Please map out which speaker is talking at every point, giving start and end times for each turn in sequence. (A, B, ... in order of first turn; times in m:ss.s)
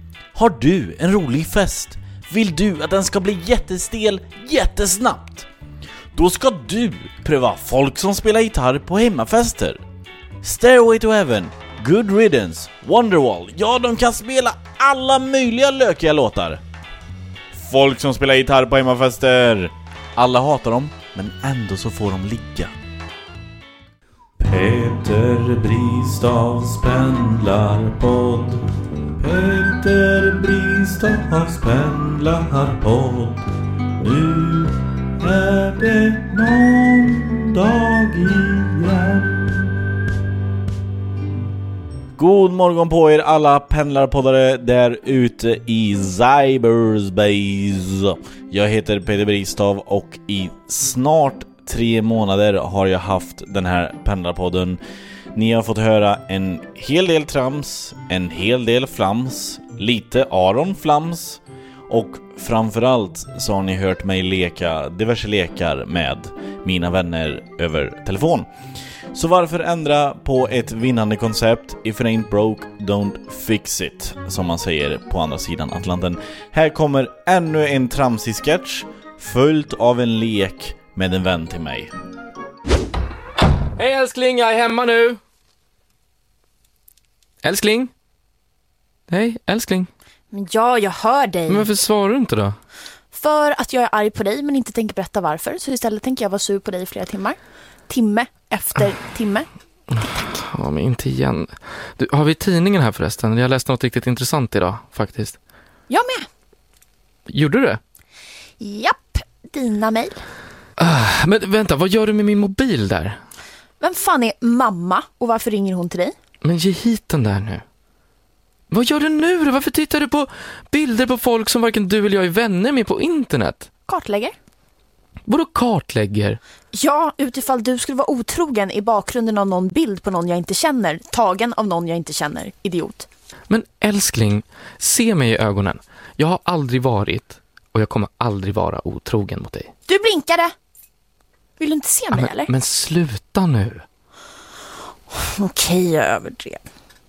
0:00.4-0:05.5 A
0:06.2-0:09.8 A
0:10.4-0:16.6 A
0:17.5-0:22.7 A
0:24.4-0:28.6 A
0:29.2-0:33.5 A
0:34.0-0:39.7 A
0:42.2-0:54.8 A
0:55.4-1:08.5 A
1:09.1-1:21.9 A
1:23.8-1:25.2 B
1:27.4-1:27.9 B
1:29.1-1:29.9 B
1:30.3-1:31.7 C
1:31.5-1:32.6 B
1:33.1-1:37.4 C
1:37.9-1:39.5 C
1:39.9-1:45.4 B
1:45.9-1:46.2 C
1:47.3-1:47.8 B
1:48.6-1:50.2 C
1:50.8-1:53.2 B
1:53.8-1:56.2 C
1:56.4-1:57.6 B
1:58.7-2:03.7 B
2:03.9-2:04.4 C
2:05.3-2:06.4 B
2:06.7-2:13.1 C
2:13.5-2:19.7 B
2:19.9-2:20.5 C
2:21.6-2:22.5 C
2:22.1-2:23.8 B
2:25.1-2:26.6 C